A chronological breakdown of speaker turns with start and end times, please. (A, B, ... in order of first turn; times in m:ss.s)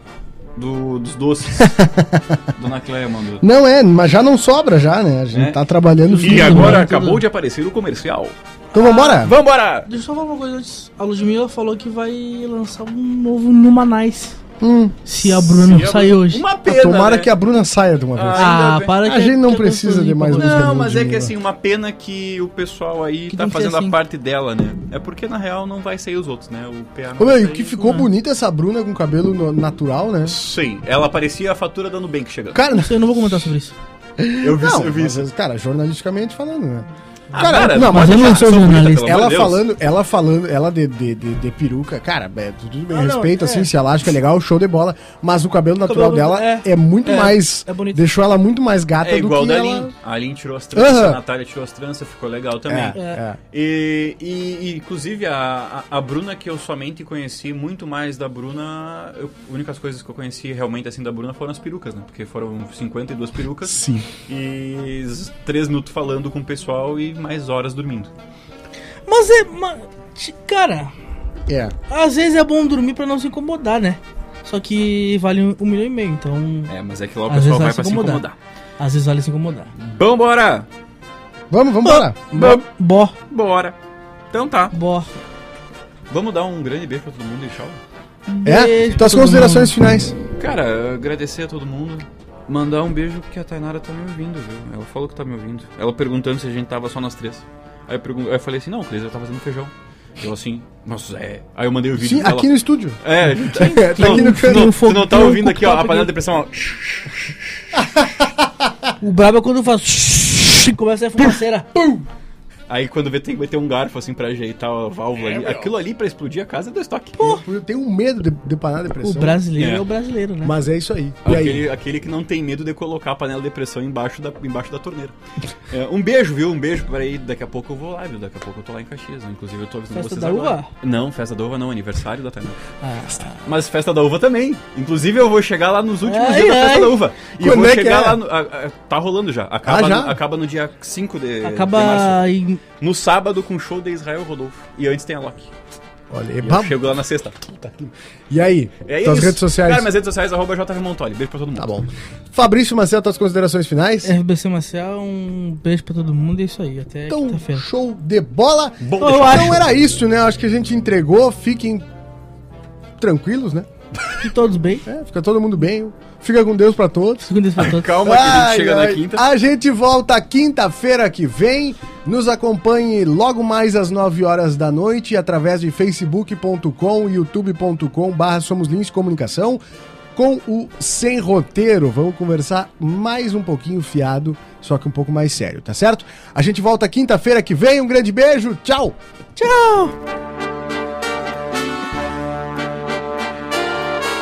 0:00.6-0:01.8 A
0:01.6-0:02.4 B
0:02.5-0:03.4 A
0:03.4-0:06.8 B
0:05.3-0:05.6 A
0:06.0-0:07.2 C
0:06.2-0:09.9 A
0:08.7-0:09.3 B
0:09.9-0:14.4 C
0:14.6-0:15.0 B
0:15.0-0:16.4 C
0:15.4-0:17.3 A
0:16.6-0:21.3 B
0:18.1-0:19.0 A
0:18.3-0:20.7 C
0:20.4-0:27.7 A
0:23.3-0:24.0 C
0:27.2-0:30.4 B
0:27.7-0:28.1 C
0:30.2-0:32.6 A
0:32.5-0:33.0 B
0:32.7-0:33.8 C
0:34.2-0:49.9 B
0:34.4-0:35.3 A
0:37.3-0:39.0 C
0:37.3-0:39.6 A
0:42.9-0:43.7 C
0:45.8-0:48.0 C
0:49.0-1:08.1 A
0:50.7-0:51.2 B
0:52.7-0:53.4 B
0:52.9-0:53.2 C
1:03.7-1:04.1 B
1:09.0-1:10.9 C
1:11.5-1:11.7 B
1:11.9-1:16.7 C
1:16.7-1:18.4 A
1:17.3-1:18.2 C
1:18.8-1:19.7 C
1:19.8-1:20.7 A
1:21.5-1:22.6 B
1:21.8-1:23.2 C
1:22.3-1:22.6 A
1:23.3-1:23.8 A
1:24.3-1:24.7 A
1:24.7-1:25.2 C
1:26.1-1:27.8 A
1:28.3-1:29.7 C
1:28.4-1:30.2 B
1:30.4-1:47.3 A
1:42.0-1:44.7 B
1:43.5-1:46.1 C
1:47.7-1:48.8 B
1:49.0-1:51.7 C
1:51.7-1:52.0 B
1:52.7-1:57.4 A
1:55.3-1:55.7 B
1:57.2-1:59.4 B
1:59.0-2:00.5 C
1:59.6-1:59.8 A
2:00.4-2:01.6 B
2:01.2-2:05.1 A
2:05.7-2:12.6 A
2:09.9-2:10.7 C
2:12.8-2:13.4 C
2:13.3-2:22.2 A
2:16.0-2:17.0 C
2:17.4-2:18.2 B
2:19.6-2:20.2 B
2:21.4-2:22.6 C
2:22.8-2:25.5 A
2:26.1-2:26.7 B
2:26.4-2:27.5 A
2:27.4-2:29.9 B
2:28.8-2:31.7 A
2:31.6-2:34.1 B
2:34.0-2:37.6 C
2:37.1-2:41.8 B
2:38.8-2:39.6 A
2:39.0-2:39.6 C
2:43.0-2:43.7 B
2:44.2-2:44.9 C
2:44.8-2:59.6 B
2:47.2-2:47.9 C
2:47.6-2:49.2 A
3:00.1-3:09.0 B
3:09.4-3:09.9 C